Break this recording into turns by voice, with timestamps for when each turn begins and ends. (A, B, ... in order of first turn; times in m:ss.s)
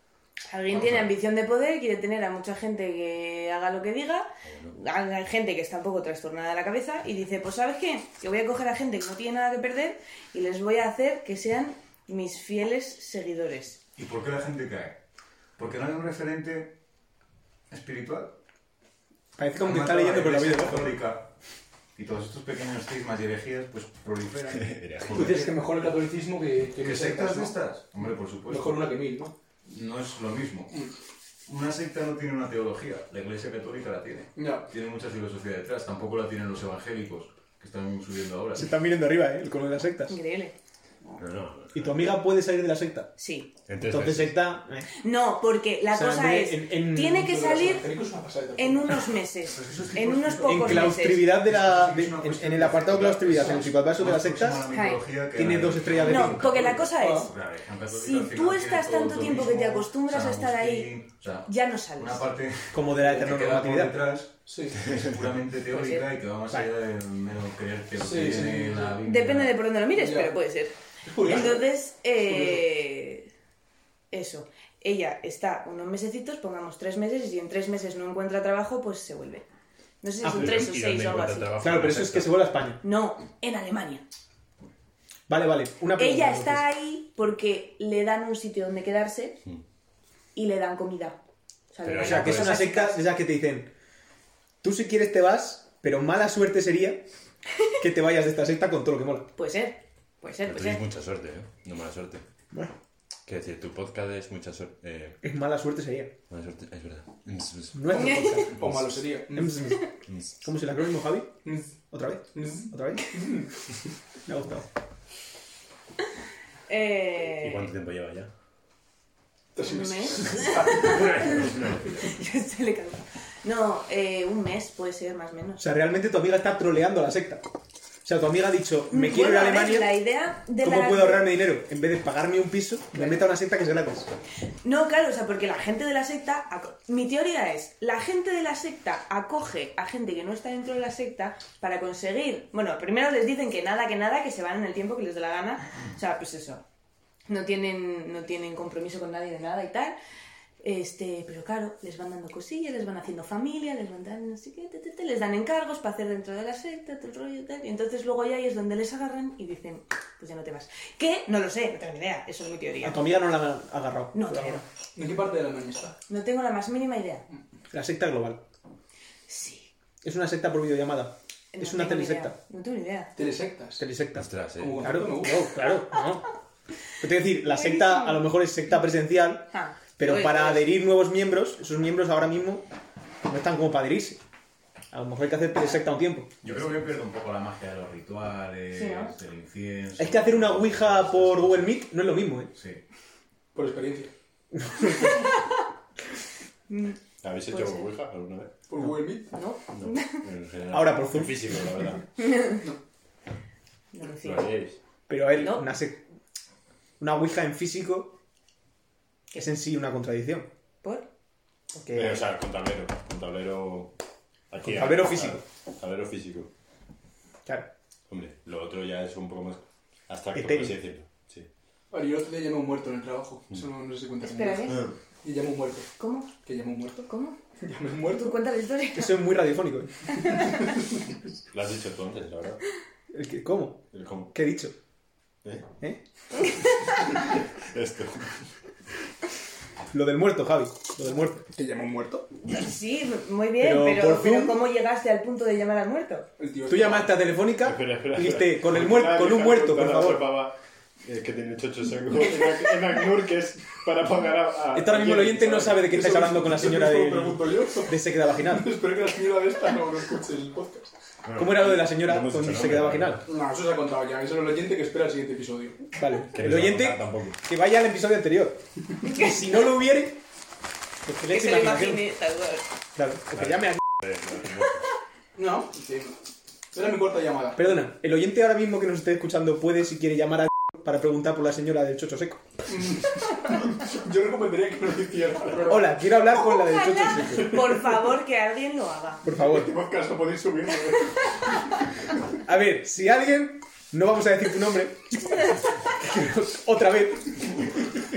0:00.5-0:13.8 A
0:00.7-0:01.1 B
0:04.4-0:04.8 C
0:14.0-0:15.0 B
0:15.6-0:16.8 B
0:17.7-0:18.4 B
0:19.4-0:21.0 D
0:19.6-0:21.3 B
0:22.0-0:25.7 B
0:24.5-0:25.4 C
0:25.1-0:27.6 E
0:26.8-0:28.9 B
0:28.5-0:29.3 E
0:29.7-0:30.8 B
0:31.5-0:38.8 B
0:34.4-0:34.7 E
0:38.6-0:40.2 D
0:40.1-0:40.5 A
0:41.2-0:42.2 C
0:41.7-0:43.1 D
0:43.2-0:43.5 A
0:43.7-0:44.6 C
0:43.8-0:44.9 D
0:44.9-0:47.9 A
0:45.9-0:47.3 D
0:47.1-0:49.1 E
0:48.6-0:51.4 A
0:49.4-0:50.8 B
0:50.5-0:54.8 D
0:51.4-1:04.3 B
0:53.3-0:53.6 E
0:54.7-0:55.0 A
0:55.3-0:56.7 D
0:56.0-0:57.3 A
0:57.0-0:57.3 E
0:57.9-1:02.2 A
1:02.7-1:04.0 D
1:04.5-1:04.9 E
1:04.9-1:09.6 B
1:05.7-1:06.1 A
1:08.0-1:09.0 E
1:09.0-1:13.3 A
1:09.9-1:10.4 E
1:11.0-1:11.7 E
1:12.3-1:12.6 E
1:14.1-1:19.4 A
1:20.0-1:21.5 A
1:20.2-1:20.7 D
1:20.3-1:22.5 C
1:21.6-1:22.8 D
1:22.8-1:24.0 A
1:25.3-1:26.6 D
1:26.0-1:29.4 A
1:30.4-1:31.2 A
1:31.7-1:33.0 A
1:31.8-1:32.7 C
1:32.0-1:33.7 D
1:34.6-1:37.0 D
1:37.8-1:39.3 D
1:39.4-1:40.8 A
1:40.4-1:42.2 C
1:43.3-1:45.2 C
1:45.2-1:46.1 D
1:46.3-1:48.9 C
1:47.7-1:48.7 D
1:47.9-1:48.5 A
1:48.4-1:49.7 E
1:49.3-1:51.3 D
1:51.9-1:53.2 D
1:52.3-1:53.5 E
1:54.3-1:54.7 D
1:56.7-1:57.6 A
1:57.4-1:58.3 C
1:59.6-2:01.4 E
1:59.6-2:05.6 A
2:00.8-2:02.0 C
2:05.6-2:07.4 D
2:08.0-2:10.0 D
2:08.9-2:11.3 A
2:10.6-2:14.1 D
2:13.0-2:13.2 A
2:14.6-2:26.6 A
2:27.3-2:30.0 A
2:30.6-2:43.0 A
2:42.8-2:44.6 D
2:44.1-2:44.6 A
2:45.0-2:46.0 E
2:46.1-2:47.2 A
2:47.7-2:48.4 D
2:49.3-2:49.7 A
2:50.0-2:52.4 D
2:51.5-2:53.1 A
2:53.2-2:53.8 E
2:53.8-2:56.3 D
2:54.2-2:54.9 C
2:54.6-2:55.6 E
2:57.0-3:02.7 D
2:57.5-2:58.3 A
2:59.5-3:00.7 A
3:03.3-3:04.2 D
3:04.9-3:06.4 D
3:06.4-3:10.8 B
3:08.7-3:09.1 A
3:10.0-3:12.5 D
3:10.3-3:11.6 C
3:12.5-3:12.8 B
3:13.6-3:14.1 E
3:14.7-3:15.1 D
3:14.9-3:15.3 A
3:16.7-3:17.0 A
3:17.2-3:18.5 C
3:17.5-3:17.8 A
3:18.7-3:19.4 E
3:19.3-3:20.2 A
3:19.7-3:22.1 C
3:20.7-3:21.6 D
3:22.3-3:22.6 A
3:23.9-3:24.5 A
3:24.2-3:24.8 C
3:25.1-3:26.0 D
3:25.4-3:25.7 A
3:27.0-3:28.2 D
3:29.3-3:30.5 D
3:31.7-3:32.2 D
3:31.9-3:33.9 C
3:34.5-3:36.5 C
3:34.6-3:35.4 D
3:38.1-3:41.5 C
3:40.4-3:40.8 D
3:41.9-3:45.9 E
3:44.2-3:44.9 A
3:46.0-3:46.3 A
3:46.4-3:47.1 E
3:47.0-3:47.4 A
3:47.6-3:48.4 E
3:48.1-3:49.2 A
3:49.0-3:50.4 D
3:51.5-3:52.6 C
3:53.1-3:54.7 D
3:53.9-3:54.3 C
3:57.2-3:58.4 C
3:59.9-4:01.5 D
4:01.5-4:02.3 E
4:02.5-4:06.3 A
4:03.6-4:04.6 D
4:06.4-4:07.2 E
4:06.7-4:10.3 D
4:07.6-4:15.7 C
4:14.7-4:18.7 D
4:15.0-4:20.9 E
4:21.2-4:23.2 C
4:21.4-4:23.2 D
4:23.2-4:25.9 E
4:25.9-4:30.2 D
4:26.3-4:27.4 C
4:31.0-4:32.1 D
4:31.3-4:32.6 A
4:33.0-4:33.8 D
4:33.3-4:34.9 C
4:35.4-4:36.2 E
4:36.7-4:37.8 E
4:37.6-4:42.4 D
4:42.7-4:46.1 E
4:45.6-4:47.6 D
4:46.4-4:49.3 A
4:47.4-4:47.7 E
4:49.2-4:49.7 D
4:49.3-4:51.5 E
4:52.4-4:57.7 D